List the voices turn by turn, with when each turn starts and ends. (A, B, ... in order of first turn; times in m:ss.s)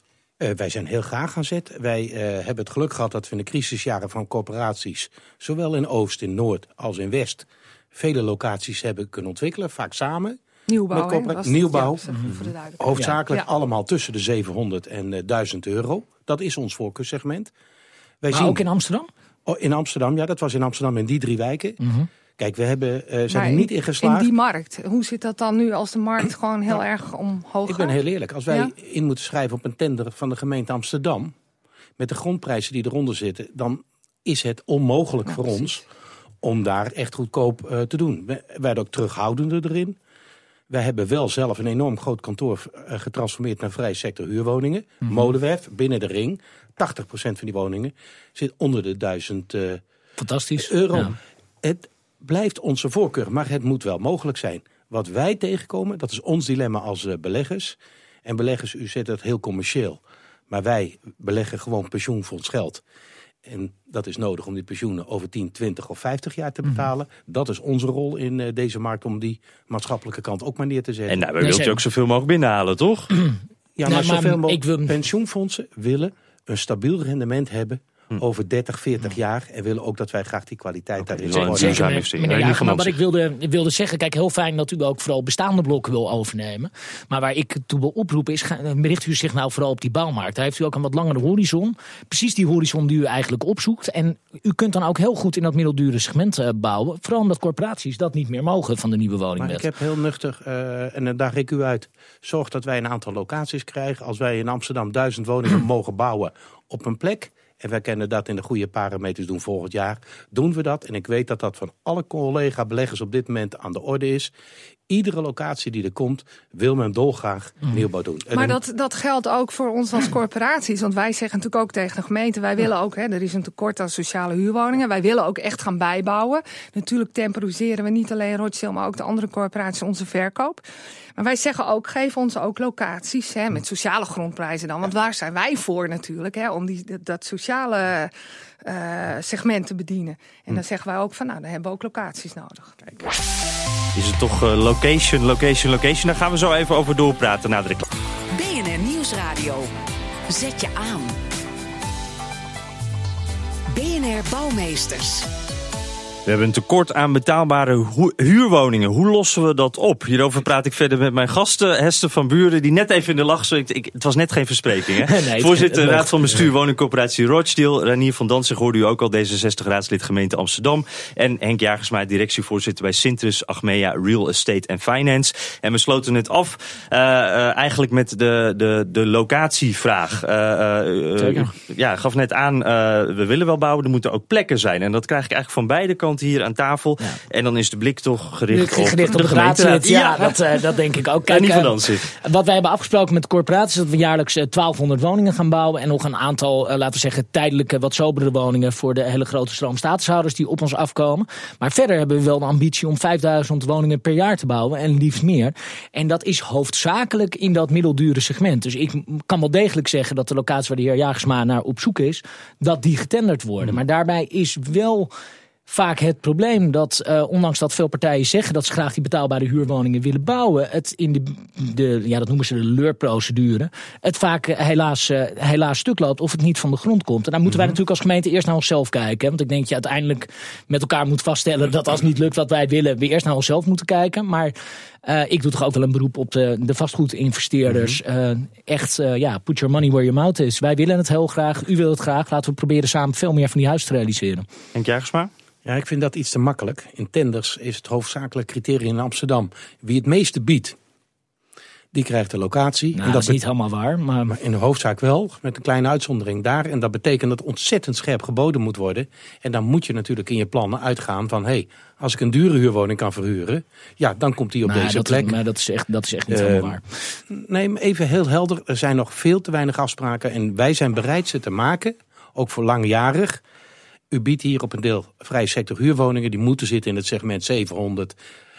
0:00.4-0:12.0 A
0:10.7-0:13.4 B
0:12.8-0:17.5 A
0:12.9-0:13.2 C
0:18.2-0:18.6 A
0:18.3-0:19.1 C
0:19.5-0:21.8 A
0:21.8-0:22.1 C
0:22.4-0:24.3 A
0:23.3-0:28.7 B
0:27.7-0:31.3 A
0:32.0-0:35.8 A
0:35.3-0:35.8 B
0:36.4-0:40.0 A
0:40.7-0:49.8 A
0:50.2-0:51.1 C
0:50.6-1:02.8 A
1:03.4-1:11.2 A
1:11.1-1:13.1 D
1:11.4-1:11.8 C
1:13.8-1:21.9 A
1:13.8-1:15.0 C
1:21.0-1:23.0 D
1:21.4-1:39.7 C
1:39.4-1:54.3 A
1:54.9-1:58.6 A
1:58.3-2:10.6 B
2:11.2-2:18.1 B
2:18.6-2:23.1 B
2:23.9-2:27.8 D
2:28.3-2:29.7 E
2:30.3-2:31.1 E
2:33.7-2:35.3 E
2:36.2-3:10.6 D
2:45.0-2:46.5 C
3:01.2-3:01.5 C
3:08.5-3:35.1 C
3:11.2-3:12.1 D
3:35.7-3:54.5 C
3:55.0-4:04.4 C
3:57.7-3:58.0 D
4:04.7-4:05.3 D
4:05.6-4:10.8 A
4:11.9-4:13.4 A
4:12.9-4:14.4 C
4:14.3-4:25.4 A
4:24.6-4:26.8 C
4:26.3-4:26.8 A
4:27.3-4:33.4 A
4:34.1-4:38.2 A